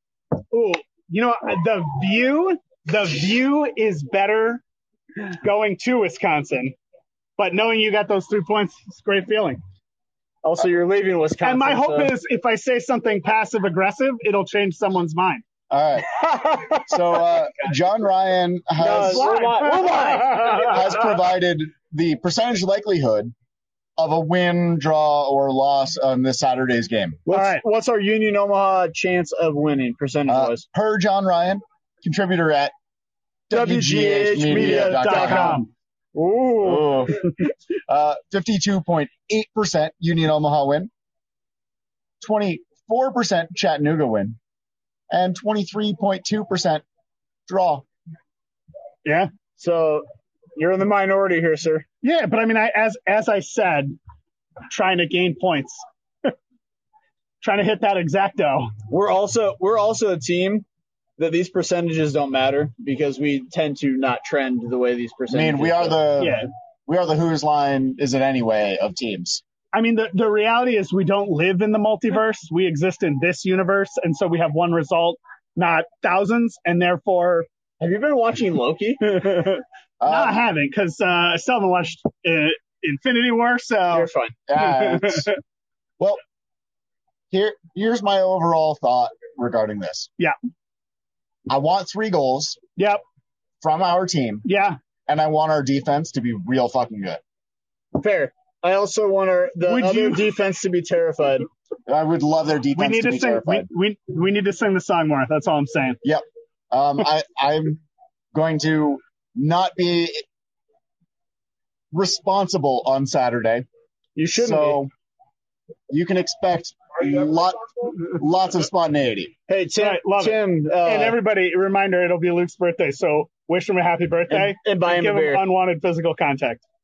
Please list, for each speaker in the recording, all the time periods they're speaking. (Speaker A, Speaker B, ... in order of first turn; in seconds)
Speaker A: 0.5-4.6, 5.3-6.7, 7.4-9.6, 11.4-15.4, 18.8-20.6, 27.3-27.6, 34.4-35.7, 49.0-49.3, 52.0-53.9, 54.7-56.3, 57.4-58.7, 66.2-66.5, 69.7-77.5, 79.2-85.3, 92.8-93.0, 94.4-94.8, 99.7-100.2, 102.8-106.0, 119.8-126.6
Speaker B: 10.4-12.1, 16.2-16.9, 18.8-20.8, 27.3-30.6, 33.5-37.1, 49.6-51.9, 58.9-60.6, 61.2-66.0, 77.8-79.4, 83.9-84.3, 97.9-101.5, 114.2-114.8, 119.5-121.2, 124.3-125.4
Speaker C: 15.7-19.3, 20.3-23.3, 24.0-27.2, 30.3-32.7, 33.5-35.6, 36.6-37.3, 37.9-40.9, 42.2-44.4, 45.1-46.8, 47.5-47.9, 65.3-69.4, 80.0-80.4, 84.5-85.3, 87.3-90.1, 91.5-92.6, 93.6-94.4, 95.1-97.2, 101.9-103.7, 106.0-107.8, 108.3-110.2, 111.9-113.6, 114.3-114.9, 115.9-119.3